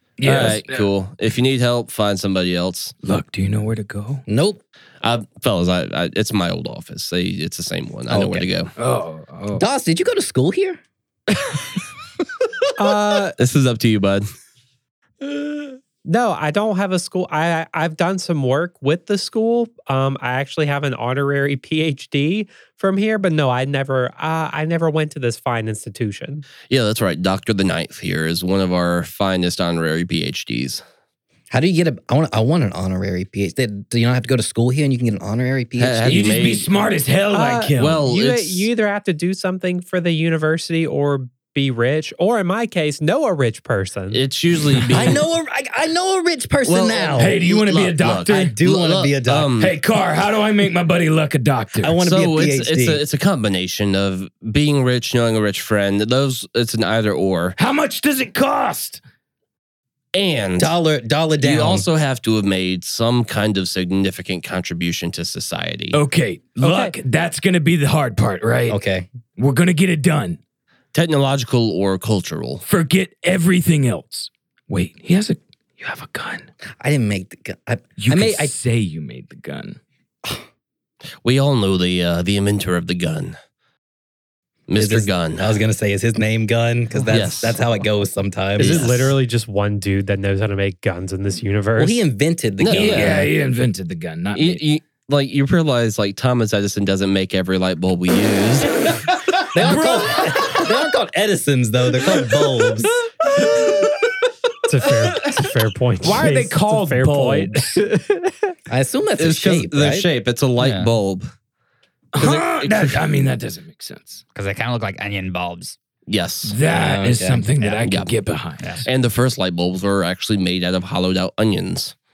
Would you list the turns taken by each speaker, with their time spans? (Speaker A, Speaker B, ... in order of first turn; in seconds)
Speaker A: 0.2-0.9, 3.0-4.2, 8.8-9.7, 36.1-38.1, 47.2-48.5, 49.6-52.0, 57.6-59.0, 65.9-68.8, 69.4-70.4, 72.6-76.5, 78.0-79.8, 92.7-94.6, 99.6-100.6, 106.0-107.8, 112.1-114.2, 116.4-118.8
Speaker B: 0.2-2.9, 5.0-8.7, 13.4-14.2, 26.7-30.8, 35.8-36.6, 37.8-38.7, 44.1-45.2, 46.6-49.7, 52.0-57.5, 60.1-60.8, 61.4-66.0, 70.9-72.6, 81.2-83.3, 84.7-85.6, 87.1-87.6, 88.6-89.1, 92.6-93.3, 94.3-98.9, 109.2-111.3, 112.2-113.0, 116.1-116.5, 117.8-118.1, 118.8-121.9
Speaker C: 4.3-4.6, 8.1-8.5, 9.6-10.8, 31.5-36.6, 44.9-47.5, 48.3-49.5, 51.8-53.0, 60.6-61.8, 68.7-69.1, 76.8-78.5, 84.8-89.0, 91.8-93.3, 99.5-102.9, 108.7-110.1, 116.6-117.5
Speaker D: 12.8-13.3, 15.3-26.4, 37.3-44.2, 66.6-67.0, 88.6-92.0, 104.7-108.3
Speaker E: 110.6-110.9, 114.3-115.8, 117.6-117.9, 118.6-118.8